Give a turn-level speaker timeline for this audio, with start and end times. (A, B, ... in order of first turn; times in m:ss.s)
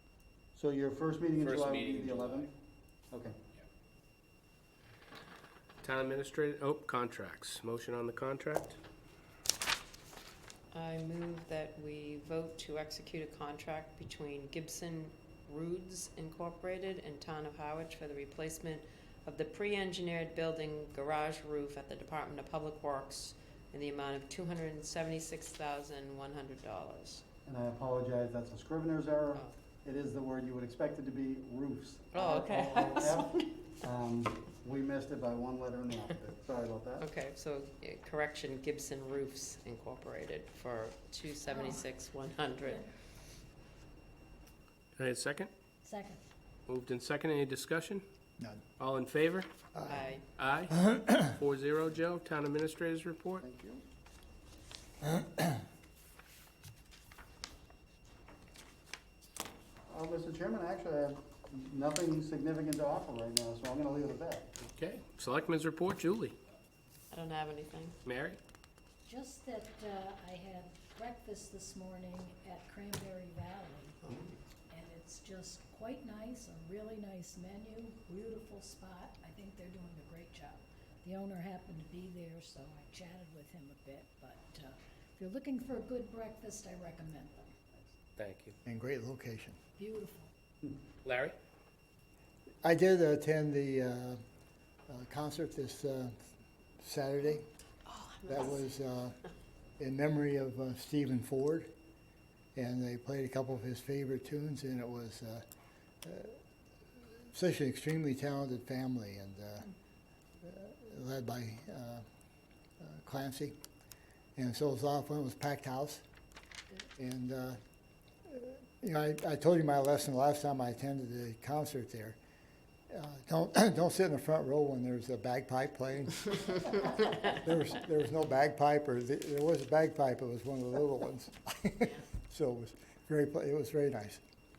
0:00.5-0:02.5 A
0:01.4-0:02.5 B
0:03.1-0:03.4 A
0:05.8-0:08.8 B
0:10.7-0:27.2 C
0:27.4-0:37.1 A
0:32.1-0:33.5 C
0:37.0-0:42.8 C
0:41.4-0:41.9 D
0:45.0-0:45.5 B
0:45.8-0:46.2 D
0:46.7-0:48.0 B
0:48.8-0:49.5 B
0:49.7-0:50.1 E
0:49.8-0:50.2 C
0:50.3-0:53.4 B
0:53.4-0:53.8 A
0:55.0-0:55.4 E
0:59.9-1:04.5 A
1:04.7-1:06.4 B
1:07.1-1:08.0 C
1:08.0-1:08.4 B
1:09.0-1:14.1 D
1:14.0-1:14.3 C
1:14.7-1:27.5 D
1:28.2-1:28.5 B
1:28.6-1:29.6 E
1:29.8-1:30.3 D
1:31.0-1:31.3 B
1:32.6-1:34.2 E
1:34.9-1:36.2 E
1:36.8-1:37.5 E
1:37.8-1:38.6 C
1:38.3-1:39.2 E
1:39.8-1:41.7 E
1:42.5-1:45.4 E
1:46.0-1:46.4 E
1:47.3-1:49.7 E
1:50.4-1:52.0 E
1:52.8-1:53.6 E
1:54.4-1:56.0 E
1:57.0-1:57.6 E
1:58.3-2:02.2 E
2:02.9-2:14.2 E